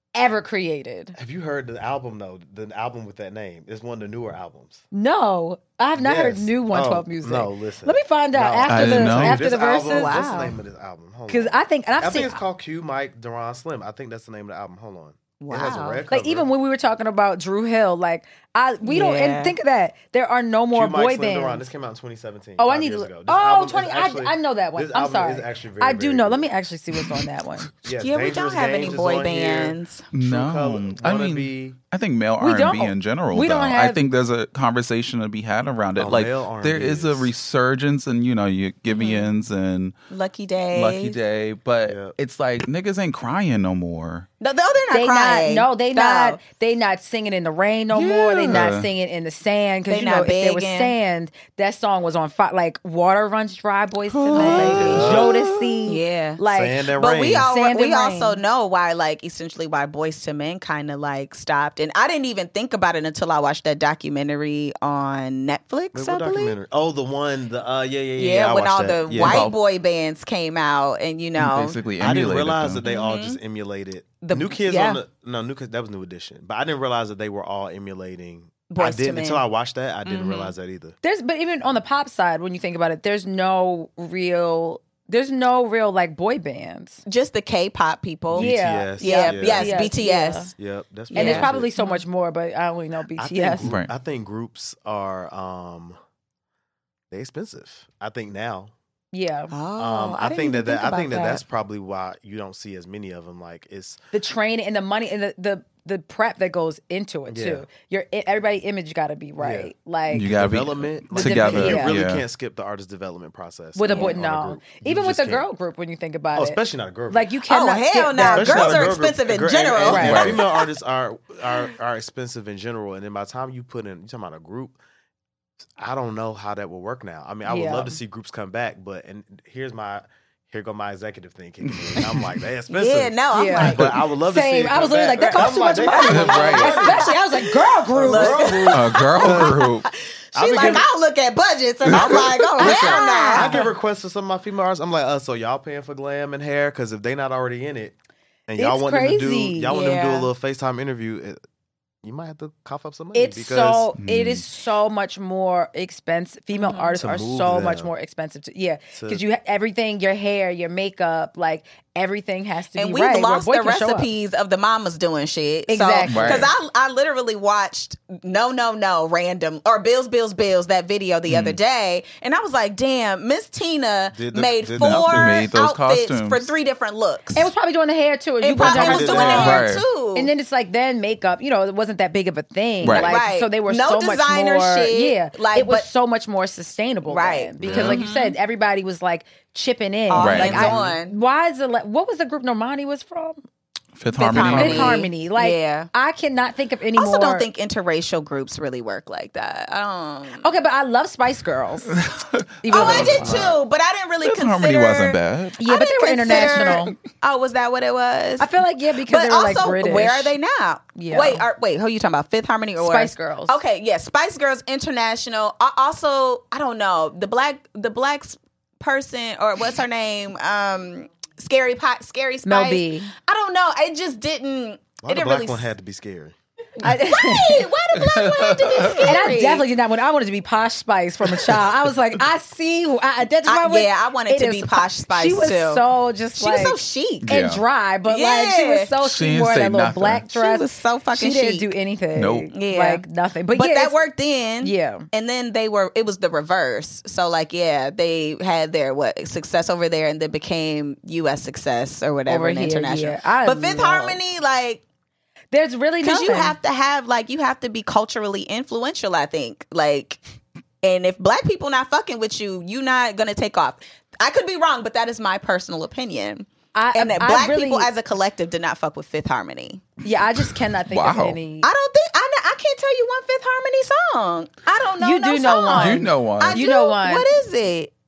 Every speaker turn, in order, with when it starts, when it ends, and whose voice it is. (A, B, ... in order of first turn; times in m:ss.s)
0:00.2-0:01.2 A
0:01.2-0:04.8 B
0:04.9-0:10.2 A
0:06.0-0:16.5 B
0:08.7-0:09.4 C
0:09.9-0:10.6 D
0:11.3-0:12.4 A
0:15.4-0:16.0 D
0:16.1-0:21.7 A
0:18.8-0:19.6 D
0:20.7-0:26.5 B
0:22.6-0:27.7 A
0:27.8-0:31.8 B
0:28.0-0:30.1 D
0:30.1-0:40.0 C
0:32.4-0:34.0 A
0:36.0-0:37.3 B
0:38.9-0:39.3 D
0:40.1-0:41.2 D
0:40.7-0:44.3 C
0:41.8-0:42.2 B
0:44.4-0:46.4 D
0:44.9-0:56.8 A
0:47.9-0:48.9 C
0:49.9-0:51.0 D
0:54.1-0:55.8 C
0:54.4-0:55.1 D
0:54.6-0:55.3 B
0:55.9-0:56.4 D
0:56.5-0:57.5 B
0:56.9-1:06.6 D
0:57.4-0:58.4 A
1:05.9-1:09.5 B
1:08.2-1:11.8 D
1:09.2-1:09.6 C
1:11.4-1:12.8 C
1:12.0-1:21.0 B
1:12.8-1:13.4 D
1:14.2-1:15.0 D
1:18.7-1:19.4 D
1:20.0-1:20.5 D
1:21.0-1:27.0 A
1:27.1-1:30.5 D
1:28.3-1:29.9 B
1:28.3-1:30.5 A
1:30.6-1:31.7 B
1:31.1-1:32.0 D
1:31.1-1:33.7 A
1:33.2-1:36.0 B
1:33.6-1:33.9 C
1:37.1-1:38.7 B
1:39.1-1:39.5 A
1:39.5-1:41.4 D
1:39.8-1:44.0 B
1:44.1-1:50.3 A
1:47.3-1:47.7 B
1:49.4-1:55.5 B
1:50.1-1:52.2 C
1:51.2-1:52.0 A
1:53.8-1:58.9 A
1:53.9-1:54.2 D
1:56.3-1:57.3 B
1:57.5-2:00.6 D
1:58.2-2:04.8 B
1:59.9-2:00.4 A
2:00.0-2:00.4 C
2:05.8-2:17.2 B
2:07.4-2:08.0 A
2:11.6-2:12.4 C
2:12.7-2:13.9 D
2:13.3-2:18.7 A
2:15.2-2:23.7 D
2:16.1-2:16.8 C
2:17.9-2:19.6 B
2:18.7-2:19.9 C
2:20.3-2:20.9 B
2:21.9-2:22.3 C
2:21.9-2:31.4 B
2:22.6-2:23.6 A
2:28.6-2:29.7 A
2:29.7-2:30.3 D
2:32.0-2:33.9 B
2:33.1-2:44.1 A
2:34.0-2:34.4 C
2:36.5-2:37.0 D
2:37.0-2:37.9 B
2:38.9-2:39.2 B
2:42.8-2:57.5 D
2:45.7-2:46.5 A
2:46.1-2:46.5 C
2:51.3-2:51.6 C
2:54.1-2:55.5 B
2:54.8-2:56.5 C
2:57.4-3:13.4 A
2:58.4-3:00.3 D
2:58.6-2:59.7 B
2:59.4-2:59.8 C
3:02.8-3:03.2 C
3:02.8-3:05.9 D
3:07.1-3:08.4 D
3:07.6-3:08.0 B
3:07.6-3:08.0 C
3:10.1-3:11.2 D
3:10.2-3:10.8 C
3:10.6-3:11.0 B
3:14.0-3:15.0 C
3:14.2-3:15.9 D
3:14.2-3:17.5 A
3:17.0-3:20.5 D
3:20.4-3:22.0 A
3:21.9-3:23.4 C
3:22.6-3:23.3 A
3:22.7-3:28.5 D
3:23.0-3:23.6 B
3:24.2-3:25.6 C
3:25.6-3:27.0 A
3:26.3-3:27.0 C
3:28.4-3:30.4 A
3:29.1-3:45.6 D
3:31.0-3:31.4 A
3:32.8-3:33.6 A
3:42.5-3:43.1 A
3:45.0-3:46.4 B
3:46.8-3:47.7 A
3:46.9-3:49.6 D
3:48.0-3:49.2 C
3:49.0-4:04.0 A
3:53.5-3:55.8 D
3:56.4-3:57.2 D
3:57.2-3:57.6 C
3:58.1-3:58.9 D
3:59.0-4:00.2 C
4:00.4-4:01.7 D
4:02.2-4:02.5 C
4:02.5-4:14.8 D
4:04.6-4:05.1 A
4:12.3-4:14.2 A
4:15.5-4:16.6 A
4:16.0-4:20.2 D
4:20.8-4:29.9 D
4:26.8-4:27.9 A
4:30.0-4:31.7 A
4:30.9-4:31.4 C
4:31.6-4:37.9 D
4:35.0-4:37.3 A
4:35.7-4:36.6 C